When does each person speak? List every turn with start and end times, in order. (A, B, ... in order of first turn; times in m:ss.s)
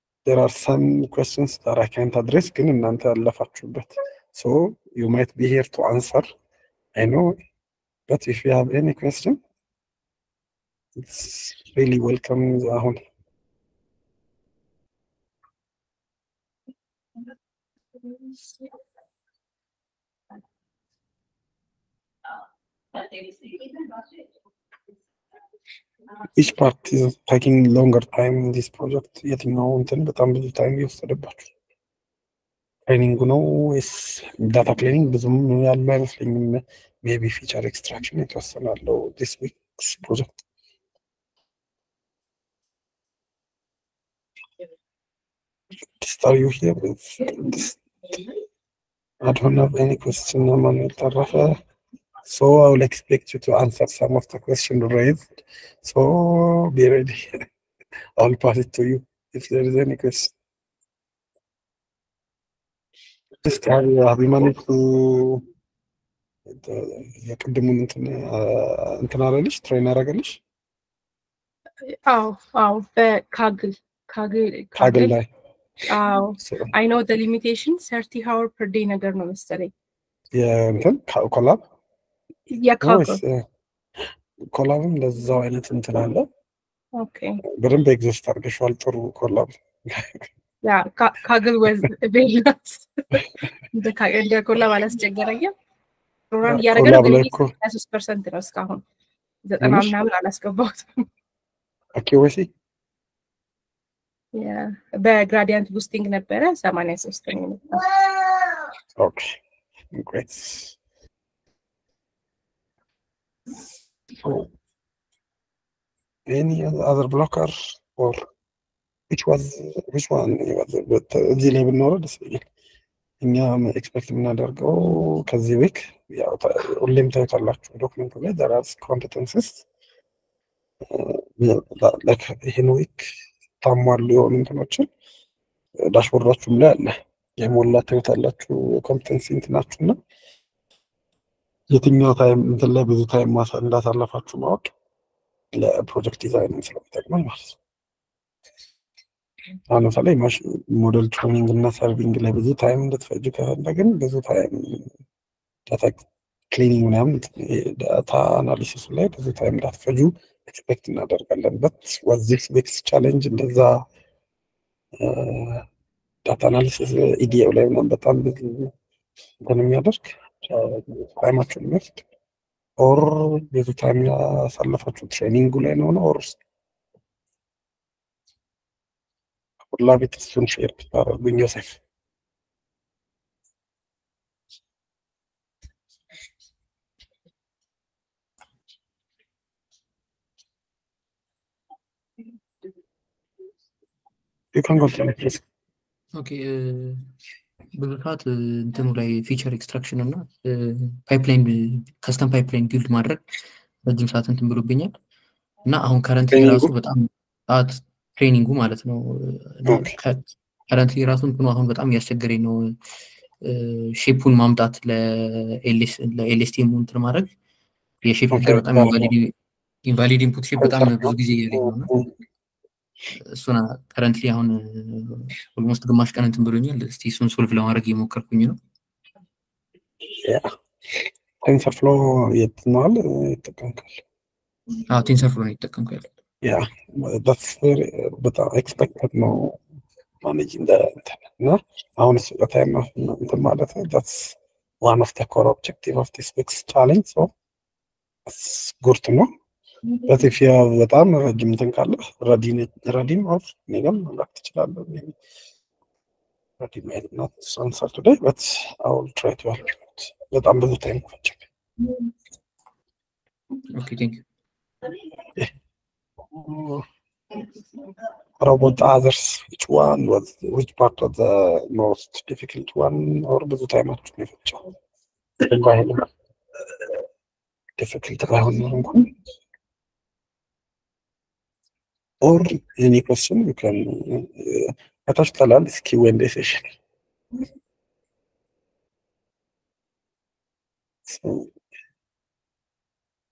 0:00.2-0:06.3 A
0:06.9-0:07.4 A
0:08.1-0:09.4 A
0:11.0-0:13.0 A
0:26.3-0:31.5 A
0:32.9-0:40.4 A
0:46.0-0:47.8 A
0:49.2-0:51.6 A
0:52.2-0:55.3 A
0:55.8-0:57.4 A
0:58.2-1:00.3 A
1:03.4-1:05.4 A
1:06.5-1:10.4 A
1:11.9-1:15.1 B
1:14.8-1:15.3 A
1:15.9-1:19.7 B
1:16.4-1:16.7 A
1:20.3-1:21.6 A
1:22.5-1:23.2 B
1:22.8-1:23.4 A
1:24.4-1:26.3 A
1:27.0-1:27.4 B
1:27.4-1:30.3 A
1:30.6-1:35.5 B
1:36.3-1:38.8 B
1:36.4-1:37.5 A
1:39.4-1:41.0 B
1:39.6-1:40.0 A
1:41.9-1:42.5 A
1:44.3-1:48.0 B
1:49.0-1:49.4 A
1:49.9-1:50.8 A
1:54.2-1:54.5 A
1:56.3-1:58.3 A
1:59.1-2:02.4 A
2:03.2-2:09.6 A
2:10.9-2:13.0 A
2:13.6-2:14.9 A
2:15.8-2:20.0 A
2:21.7-2:24.7 A
2:25.5-2:27.6 A
2:29.7-2:34.9 A
2:35.7-2:43.8 A
2:45.0-2:45.6 A
2:46.2-2:48.7 A
2:49.4-2:52.0 A
2:52.8-2:56.4 A
2:59.7-3:01.8 A
3:14.5-3:15.4 A
3:16.1-3:17.1 C
3:17.7-3:23.2 C
3:23.8-3:24.9 C
3:25.6-3:32.7 C
3:26.3-3:26.7 A
3:29.6-3:29.9 A
3:33.4-3:37.3 C
3:38.0-3:39.3 C
3:38.3-3:39.1 A
3:39.8-3:41.9 C
3:40.6-3:42.1 A
3:43.2-3:48.6 C
3:50.2-3:54.0 A
3:54.9-3:56.1 C
3:56.4-3:59.6 A
4:00.2-4:07.3 A
4:08.2-4:09.3 A
4:10.1-4:15.1 A
4:16.6-4:21.4 A
4:23.7-4:24.2 C
4:26.3-4:26.8 A
4:28.4-4:34.7 A
4:35.4-4:36.1 A
4:37.8-4:39.1 A
4:42.2-4:46.8 A
4:51.0-4:51.5 A